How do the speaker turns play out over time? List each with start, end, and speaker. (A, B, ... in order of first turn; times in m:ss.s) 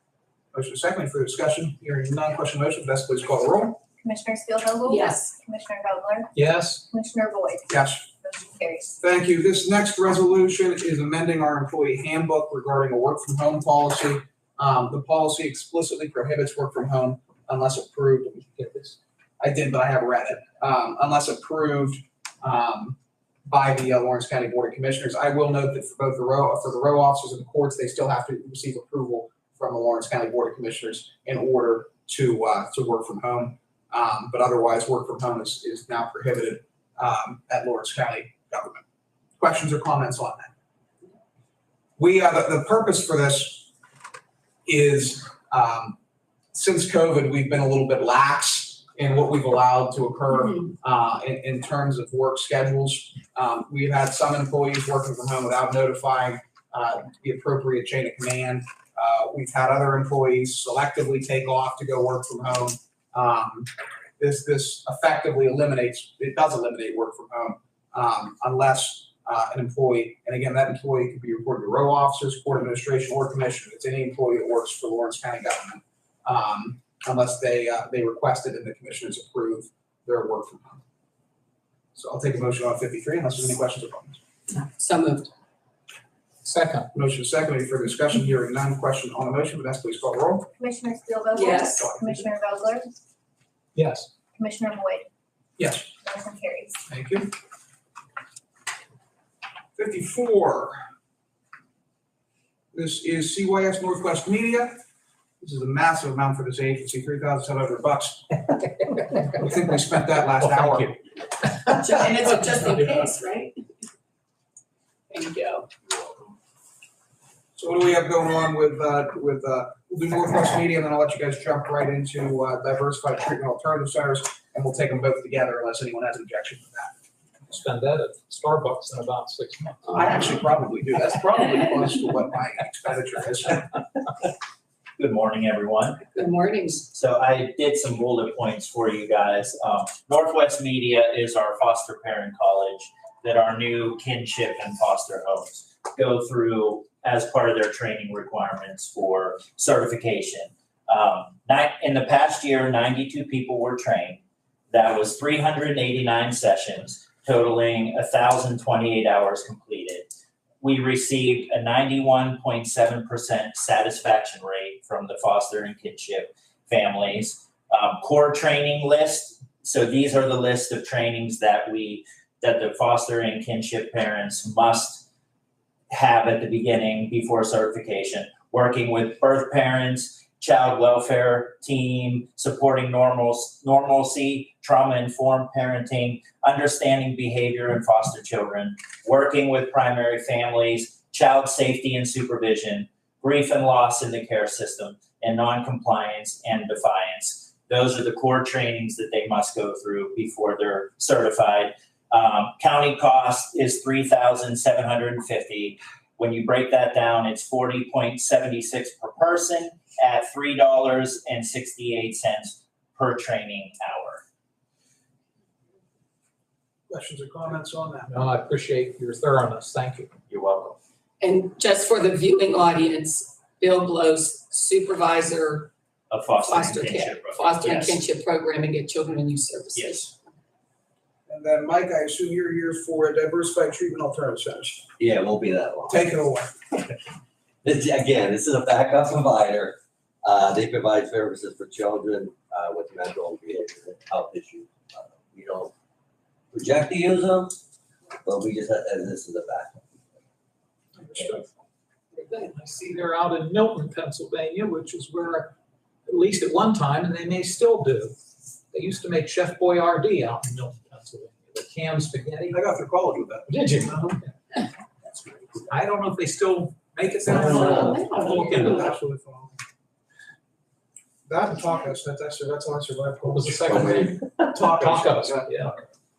0:00.5-0:03.8 A
0:04.0-0:06.3 B
0:04.9-0:05.3 C
0:06.3-0:06.8 D
0:06.9-0:08.9 B
0:07.7-0:08.0 A
0:09.0-0:18.5 A
0:18.5-0:18.9 D
0:19.4-0:38.8 A
0:39.4-0:40.5 A
0:42.0-0:43.7 A
0:44.6-0:46.0 A
0:46.5-1:20.8 A
1:21.9-1:24.2 A
1:24.5-1:25.3 C
1:26.4-1:26.9 D
1:26.9-1:30.5 A
1:30.6-1:32.9 B
1:31.4-1:31.9 C
1:31.8-1:32.2 A
1:33.7-1:34.1 D
1:34.4-1:35.0 B
1:35.6-1:35.9 A
1:36.0-1:36.7 B
1:36.9-1:37.3 A
1:39.8-1:40.8 A
1:42.7-1:44.8 A
1:45.4-1:48.3 A
1:49.2-1:50.9 A
1:50.4-1:50.9 D
1:51.4-1:53.1 D
1:51.7-1:53.5 C
1:55.1-1:55.7 C
1:57.6-2:06.9 A
2:07.5-2:10.0 D
2:09.9-2:13.7 A
2:15.0-2:16.0 E
2:16.1-2:16.8 C
2:16.8-2:40.1 E
2:40.6-2:55.0 E
2:55.9-3:34.2 E
3:36.9-3:38.2 A
3:38.1-3:40.2 D
3:40.3-3:40.8 E
3:41.2-3:45.7 C
3:46.1-3:48.0 E
3:46.4-3:50.1 C
3:49.8-3:50.1 E
3:51.3-3:54.9 A
3:55.0-3:56.1 F
3:55.9-3:56.6 A
3:57.6-4:05.7 F
4:06.5-4:07.6 F
4:08.2-4:09.8 F
4:11.0-4:11.5 D
4:12.1-4:15.5 D
4:16.1-4:18.2 D
4:18.7-4:22.6 D
4:22.5-4:24.2 A
4:23.5-4:24.3 D
4:25.7-4:29.0 D
4:27.4-4:28.9 C
4:28.1-4:29.6 A
4:31.3-4:35.5 A
4:33.3-4:35.8 D
4:33.7-4:34.0 F